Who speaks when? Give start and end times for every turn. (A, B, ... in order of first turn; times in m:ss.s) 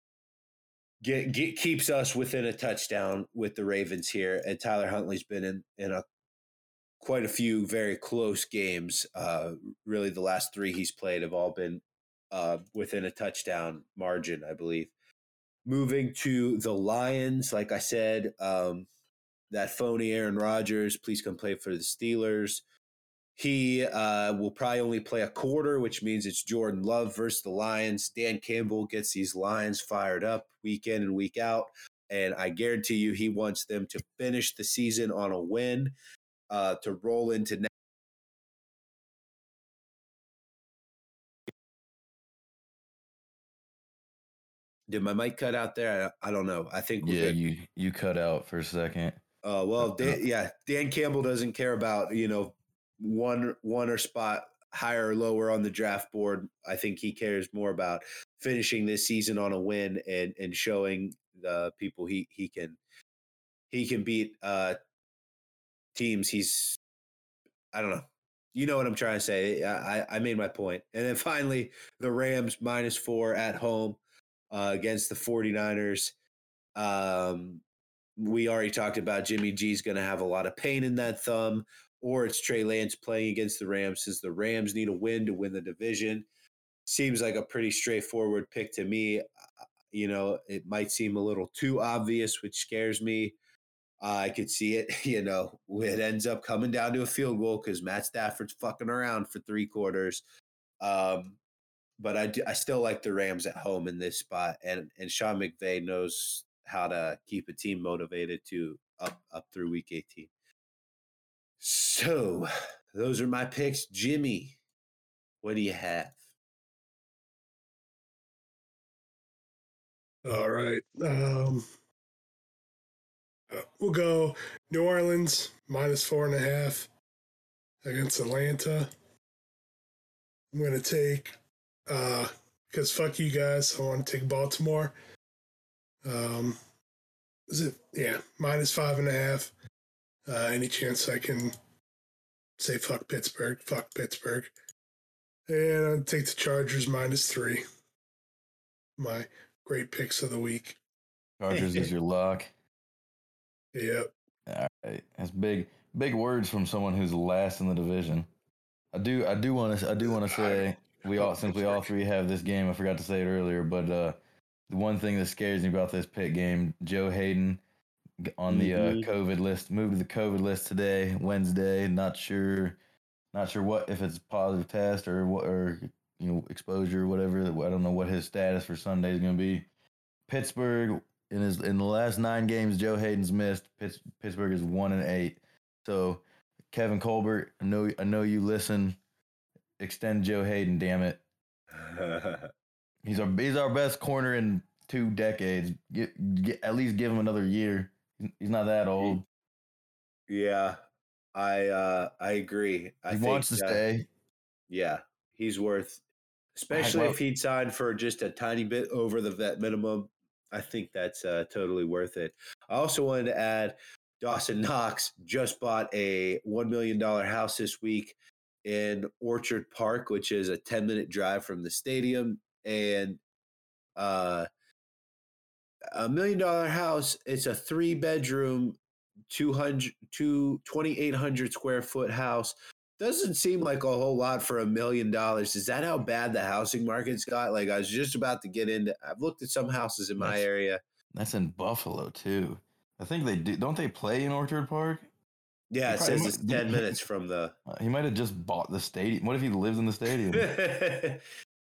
0:01.0-0:06.0 A
0:07.0-0:14.9 A
0:15.6-0:18.9 A
0:19.5-0:22.6 A
0:23.4-0:35.9 A
0:36.5-0:37.7 A
0:44.9-0:47.4 A
0:47.0-0:49.2 B
0:49.4-1:02.8 A
0:49.8-0:50.2 B
1:03.7-1:04.8 A
1:06.0-1:06.8 A
1:07.7-1:14.0 A
1:14.5-1:16.1 A
1:16.8-1:17.6 A
1:18.2-1:26.3 A
1:26.9-1:29.2 A
1:29.9-1:33.4 A
1:34.0-1:40.2 A
1:40.8-1:41.4 A
1:42.0-1:50.3 A
1:51.6-1:54.6 A
1:55.4-1:56.2 A
2:00.2-2:01.6 C
2:03.5-2:06.9 C
2:07.8-2:08.9 C
2:10.5-2:11.4 C
2:11.9-2:14.9 C
2:16.0-2:16.6 C
2:17.5-2:19.5 C
2:20.3-2:21.6 C
2:22.6-2:24.5 C
2:25.5-2:27.6 C
2:29.0-2:30.8 C
2:31.4-2:32.5 B
2:31.6-2:31.9 A
2:33.8-2:34.1 C
2:34.5-2:38.3 B
2:38.9-2:44.2 B
2:40.3-2:40.6 A
2:41.2-2:41.8 A
2:44.7-2:47.6 B
2:48.2-2:52.8 B
2:48.5-2:49.1 A
2:53.3-2:59.7 B
3:00.3-3:09.0 B
3:09.8-3:11.2 B
3:11.7-3:12.5 A
3:13.0-3:19.2 B
3:20.3-3:20.8 A
3:21.4-3:23.8 A
3:23.1-3:24.0 B
3:24.7-3:26.0 A
3:26.6-3:43.2 A
3:26.7-3:27.2 B
3:44.0-3:44.5 A
3:46.0-3:48.8 A
3:49.3-4:00.8 A
4:00.2-4:00.4 B
4:01.1-4:05.1 B
4:05.7-4:07.6 A
4:05.9-4:06.9 B
4:07.7-4:10.5 B
4:10.3-4:11.2 A